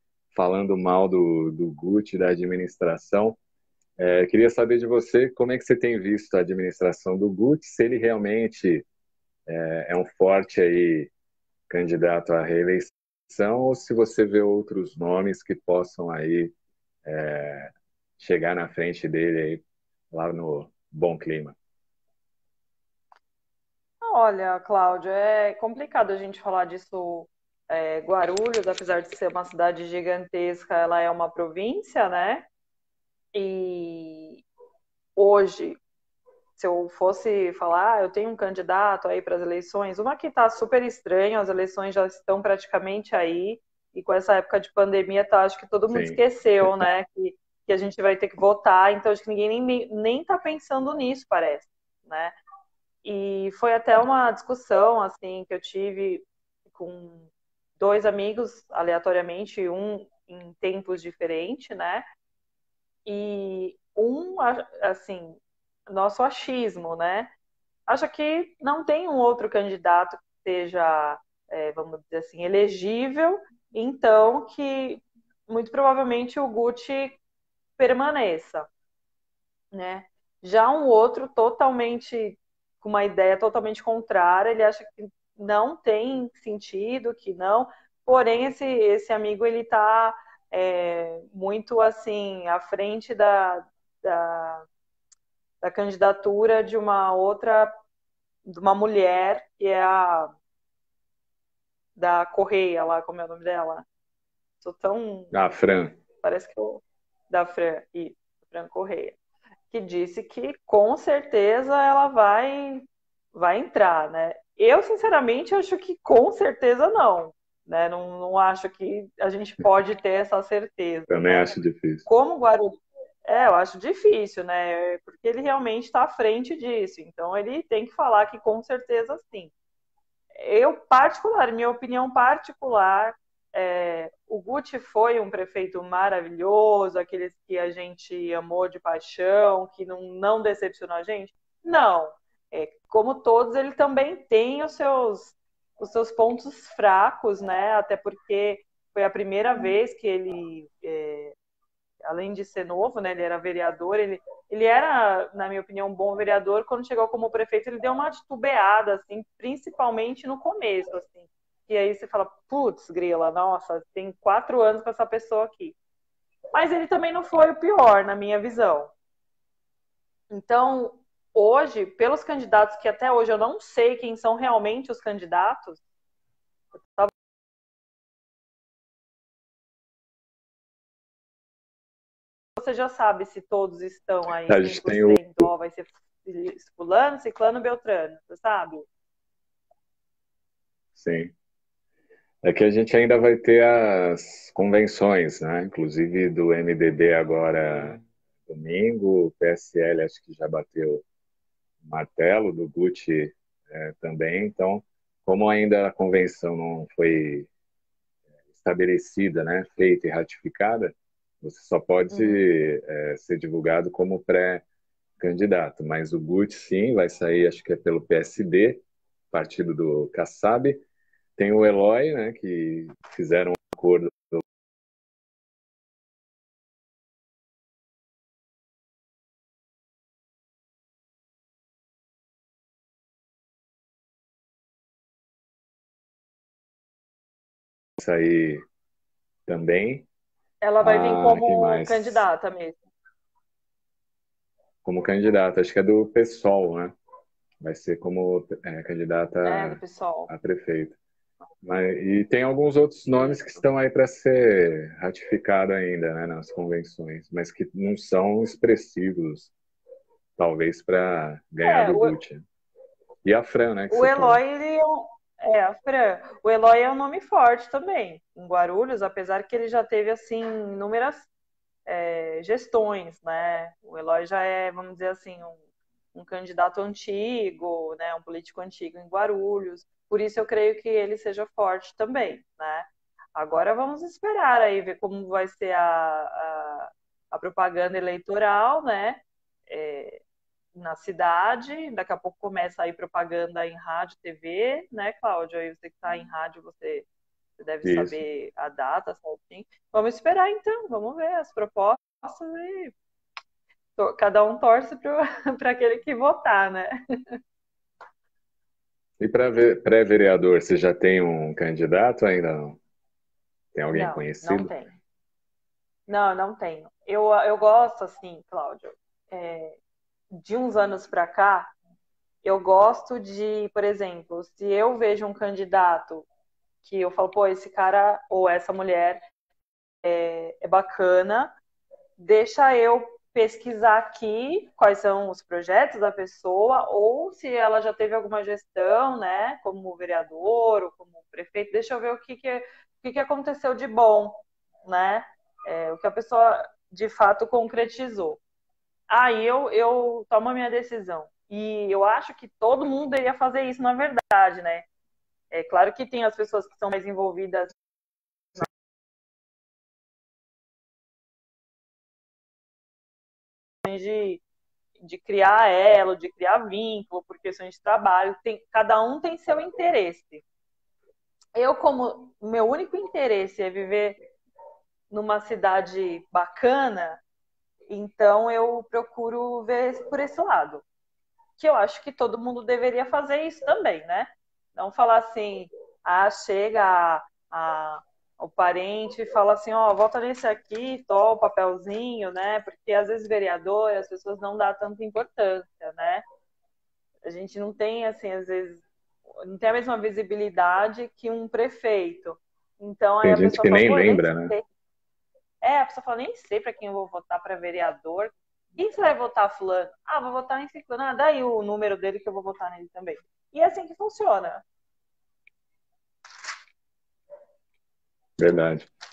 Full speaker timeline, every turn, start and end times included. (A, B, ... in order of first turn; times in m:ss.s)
0:00.3-0:03.4 A
0:04.0-0:08.8 A
0:09.5-0:11.1 A
0:11.7-0:16.5 A
0:17.0-0:21.6 A
0:24.0-0:32.5 B
0:33.3-0:34.4 B
0:35.2-0:35.8 B
0:36.6-0:52.4 B
0:45.9-0:46.8 A
0:53.0-1:02.0 B
1:03.0-1:07.3 B
1:07.9-1:17.2 B
1:17.8-1:18.7 B
1:19.7-1:34.7 B
1:35.6-1:37.7 B
1:38.4-1:40.3 B
1:42.0-1:43.8 B
1:44.6-1:45.3 B
1:45.3-1:46.0 A
1:46.2-1:49.2 B
1:49.7-2:09.5 B
2:01.1-2:02.1 A
2:10.3-2:31.3 B
2:32.0-2:45.8 B
2:46.5-2:48.9 B
2:50.3-2:55.8 B
2:56.8-2:57.1 B
3:02.6-3:08.8 B
3:04.4-3:05.5 A
3:10.9-3:11.3 A
3:12.4-3:21.0 A
3:21.8-3:27.5 A
3:28.6-3:34.6 A
3:32.1-3:32.4 B
3:35.2-3:40.8 A
3:41.4-3:44.4 A
3:58.0-3:58.6 A
3:59.5-4:00.1 A
4:00.6-4:02.8 B
4:00.8-4:02.2 A
4:04.8-4:07.0 A
4:07.6-4:11.0 A
4:09.4-4:10.3 B
4:11.6-4:19.5 A
4:13.1-4:13.6 B
4:20.4-4:22.4 A
4:21.6-4:22.2 B
4:23.2-4:24.4 A
4:23.9-4:31.3 B
4:31.8-4:35.6 B
4:36.1-4:50.2 B
4:50.7-4:57.0 B
4:57.6-5:02.9 B
4:57.8-4:58.2 A
5:04.0-5:07.4 B
5:09.2-5:12.8 A
5:13.7-5:14.7 A
5:13.9-5:14.9 B
5:16.1-5:19.8 B
5:20.3-5:21.7 B
5:22.4-5:26.3 B
5:26.8-5:29.2 B
5:30.0-5:31.5 B
5:32.2-5:48.4 B
5:49.1-5:54.9 B
5:55.5-5:57.8 B
6:03.8-6:04.4 B
6:05.0-6:10.4 B
6:11.6-6:14.2 B
6:15.1-6:17.2 B
6:17.9-6:20.8 B
6:21.6-6:36.2 B
6:37.2-6:38.8 B
6:39.4-6:44.6 B
6:43.2-6:44.5 A
6:45.6-6:54.6 B
6:58.4-6:58.9 A